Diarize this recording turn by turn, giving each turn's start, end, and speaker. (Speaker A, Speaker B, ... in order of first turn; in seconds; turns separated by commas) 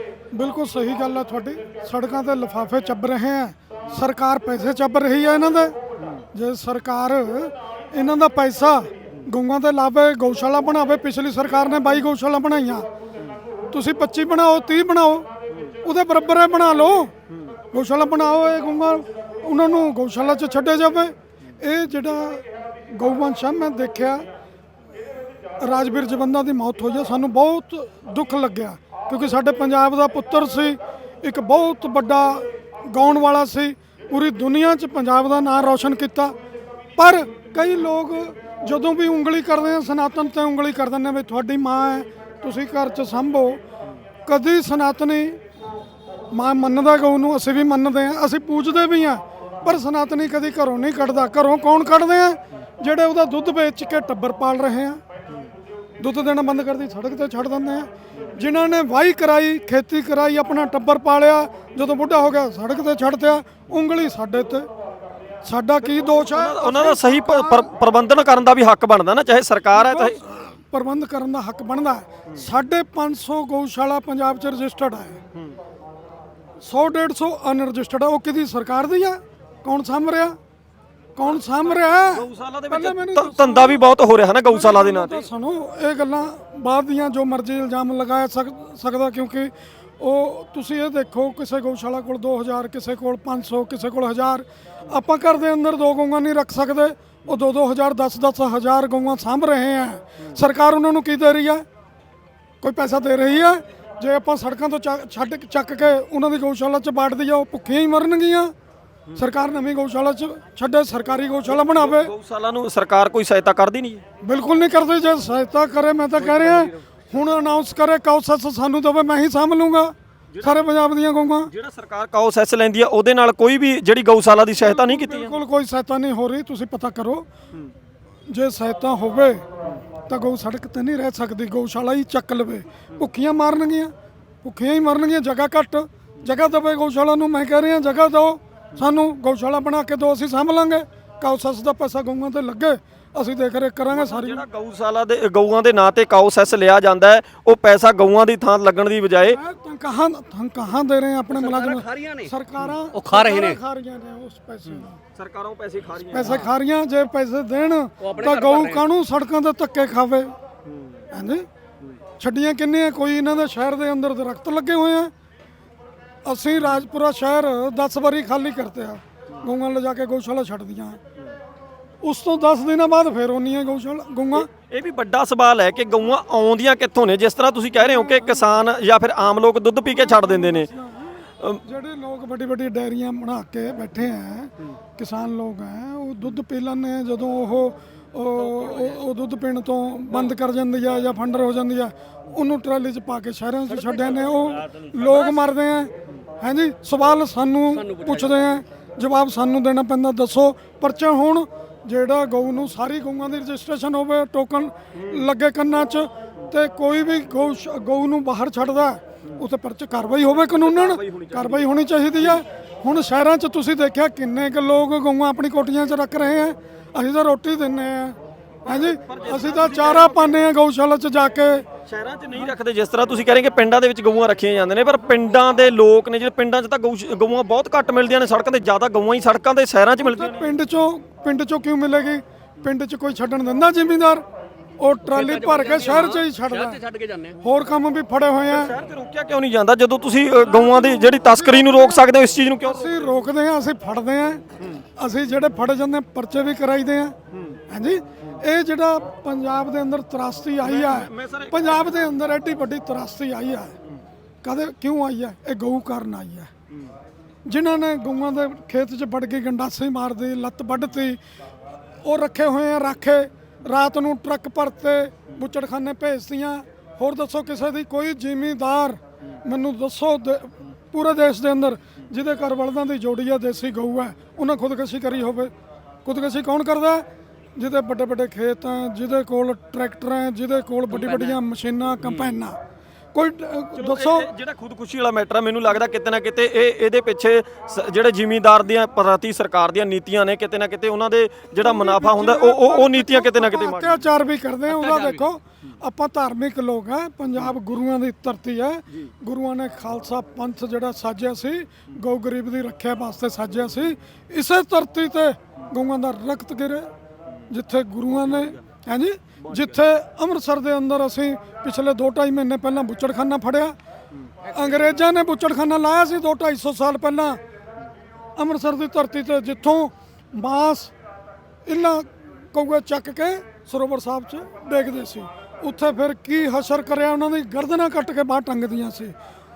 Speaker A: 0.3-5.8, Speaker A: 6.3-12.9, Speaker A: 13.7-15.3, Speaker A: 15.8-17.1, Speaker A: 17.7-24.2, Speaker A: 25.6-36.3, Speaker A: 37.0-43.6, Speaker A: 44.2-45.4, Speaker A: 46.3-55.0, Speaker A: 56.0-64.7, Speaker A: 65.4-67.7, Speaker B: 65.8-70.2, Speaker A: 69.7-75.2, Speaker A: 76.6-80.4, Speaker A: 81.2-83.9, Speaker B: 81.2-85.3, Speaker A: 84.5-101.6, Speaker A: 102.6-108.5, Speaker A: 109.2-112.1, Speaker B: 111.4-114.0, Speaker A: 114.2-121.5, Speaker B: 116.2-116.7, Speaker B: 120.3-120.8, Speaker B: 121.5-125.4, Speaker A: 124.6-127.2, Speaker A: 128.3-129.4, Speaker A: 130.1-144.4, Speaker B: 143.9-149.4, Speaker A: 149.2-155.0, Speaker C: 151.3-152.3, Speaker C: 152.9-153.6, Speaker B: 154.7-156.5, Speaker A: 156.1-160.3, Speaker C: 156.2-156.5, Speaker C: 158.0-158.8, Speaker B: 160.7-161.0, Speaker A: 161.1-161.4, Speaker A: 162.2-165.1, Speaker A: 166.2-171.0, Speaker A: 172.0-174.5, Speaker B: 174.3-180.7, Speaker A: 177.8-178.5, Speaker A: 179.9-221.7, Speaker C: 188.3-189.0, Speaker C: 190.1-190.3, Speaker C: 193.7-195.4, Speaker C: 197.7-198.6, Speaker B: 204.9-205.3, Speaker B: 210.5-212.4, Speaker B: 218.6-220.4, Speaker B: 221.9-230.5, Speaker A: 230.0-234.2, Speaker A: 234.8-236.8, Speaker C: 235.1-237.4, Speaker A: 237.4-238.8, Speaker B: 238.5-243.1, Speaker A: 240.4-242.1, Speaker A: 242.6-244.4, Speaker A: 245.0-247.2, Speaker B: 247.3-247.6, Speaker A: 247.7-253.7, Speaker B: 250.6-252.1, Speaker A: 254.4-256.5, Speaker A: 257.5-261.2, Speaker A: 262.0-275.5, Speaker A: 276.0-282.6, Speaker C: 280.9-281.4, Speaker A: 283.1-284.3, Speaker B: 283.7-294.1, Speaker A: 291.6-306.9, Speaker C: 294.7-295.2, Speaker A: 307.5-313.8, Speaker B: 308.3-308.6, Speaker B: 309.4-309.7, Speaker A: 314.5-317.4, Speaker A: 318.4-320.9, Speaker A: 321.6-329.1